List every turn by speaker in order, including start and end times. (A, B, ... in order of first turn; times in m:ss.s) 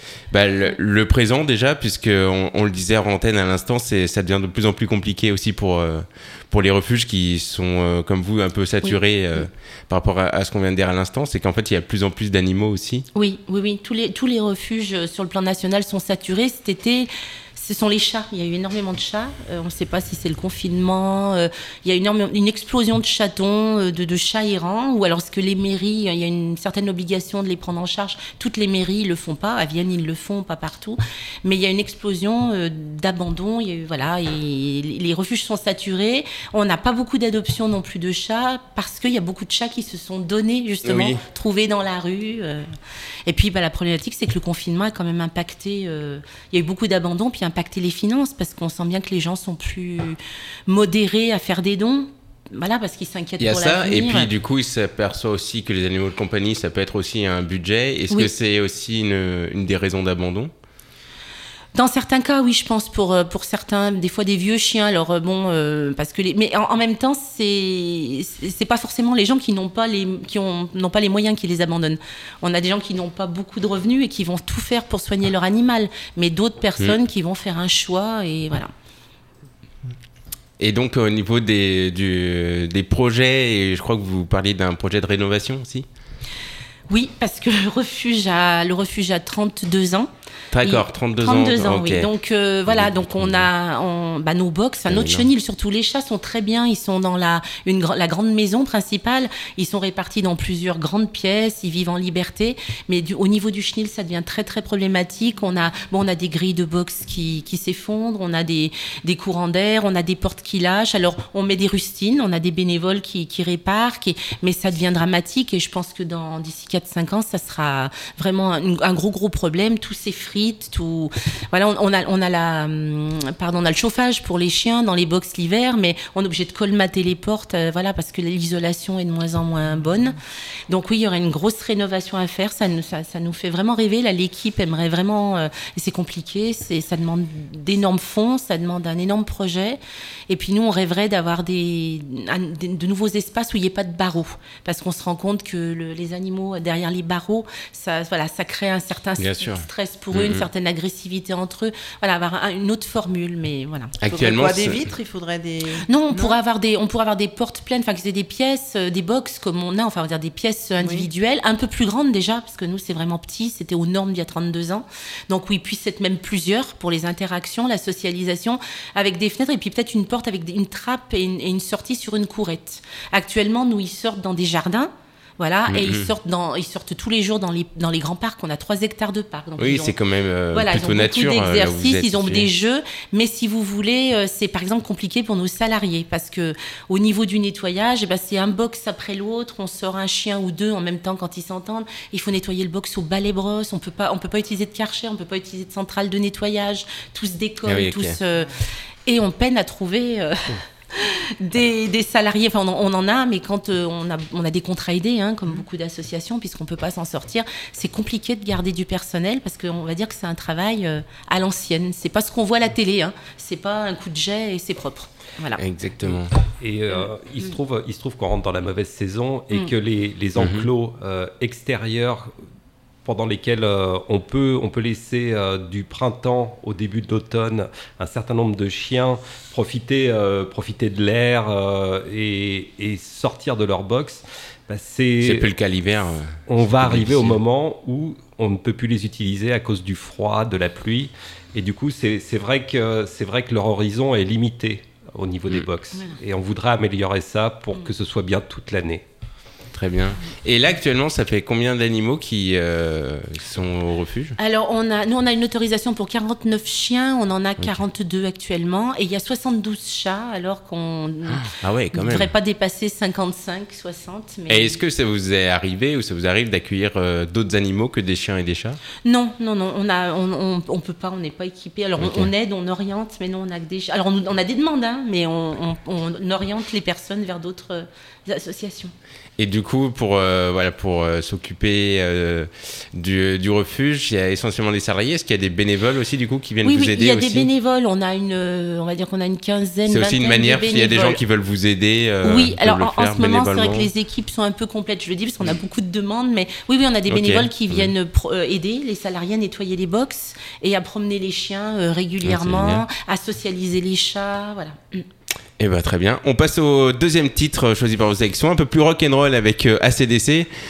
0:00.3-0:13.1 A
0:08.8-0:09.4 B
0:13.2-0:42.7 B
0:40.8-0:41.2 A
0:43.3-0:54.3 B
0:53.4-1:00.5 A
1:01.8-1:18.7 B
1:20.6-1:25.9 A
1:26.9-1:30.1 B
1:30.5-1:32.1 A
1:30.6-2:10.2 B
1:32.7-1:33.5 A
1:34.9-1:35.3 A
2:10.7-2:34.4 B
2:29.2-2:30.5 A
2:34.0-2:34.8 A
2:34.2-2:36.4 C
2:35.9-3:00.0 B
2:40.8-2:41.1 C
2:55.7-2:56.1 A
2:59.6-3:02.5 A
3:00.5-3:18.5 B
3:17.7-3:18.2 A
3:19.1-3:35.6 B
3:35.6-3:36.3 A
3:36.6-3:42.3 D
3:36.9-3:37.6 B
3:40.4-3:40.7 A
3:43.0-3:55.5 D
3:55.2-3:57.4 A
3:56.5-4:09.0 D
4:09.7-4:14.4 A
4:14.4-4:24.8 B
4:21.3-4:22.3 A
4:24.5-4:28.8 A
4:29.0-4:38.9 B
4:32.0-4:32.3 A
4:39.4-4:47.5 A
4:46.6-4:51.2 B
4:49.9-4:53.9 A
4:52.2-5:05.1 B
4:57.1-4:57.9 A
5:02.2-5:02.8 A
5:05.6-5:10.5 A